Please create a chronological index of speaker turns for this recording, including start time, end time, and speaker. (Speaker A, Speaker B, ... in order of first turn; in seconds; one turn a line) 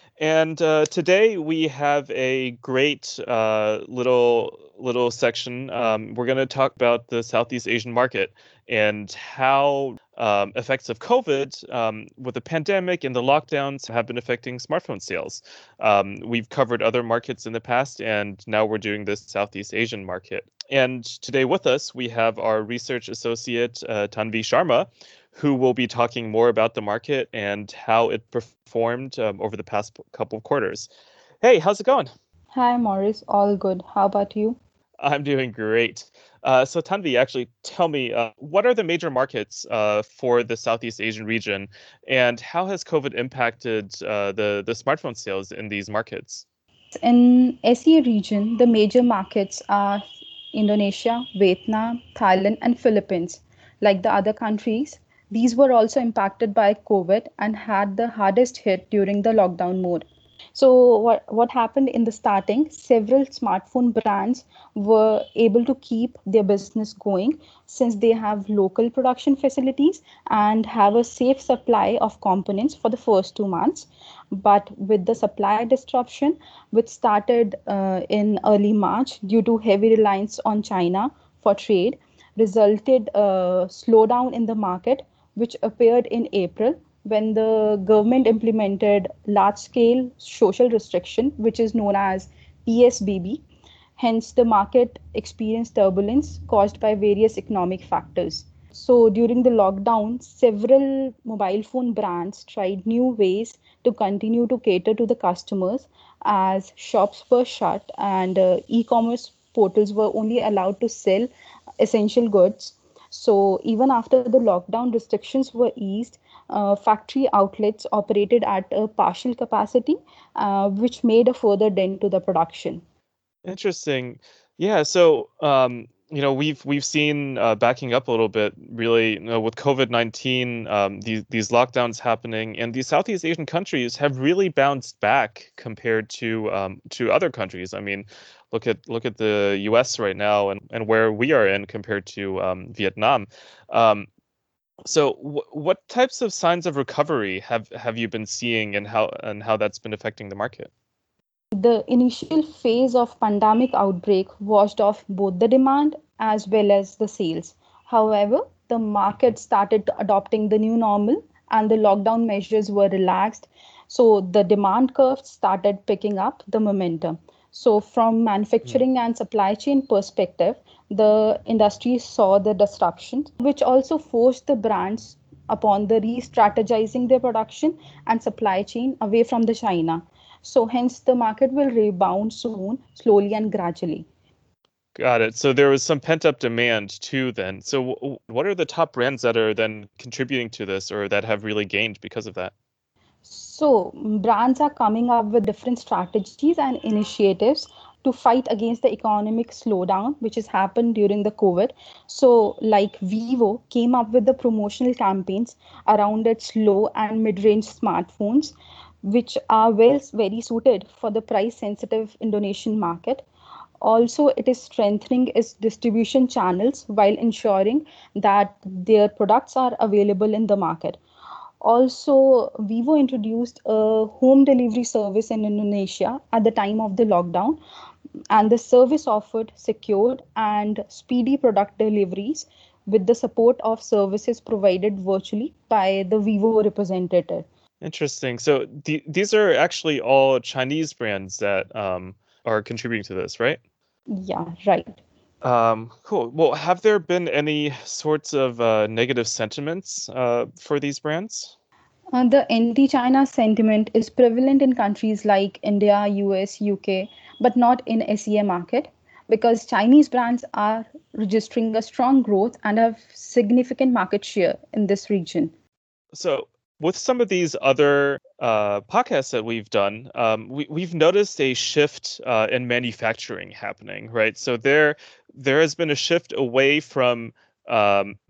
Speaker A: 0.2-30.9
Speaker A: 31.4-32.1
Speaker B: 32.5-34.6
Speaker A: 35.0-46.4
Speaker B: 47.0-93.4
Speaker B: 94.0-122.8
Speaker A: 123.5-144.1
Speaker A: 144.9-150.7
Speaker B: 151.6-184.1
Speaker A: 185.0-192.5
Speaker B: 193.2-213.3
Speaker B: 213.8-221.0
Speaker B: 221.6-227.6
Speaker B: 228.3-237.5
Speaker A: 237.8-243.6
Speaker B: 244.1-245.0
Speaker A: 245.4-251.6
Speaker B: 252.1-265.5
Speaker A: 266.1-278.2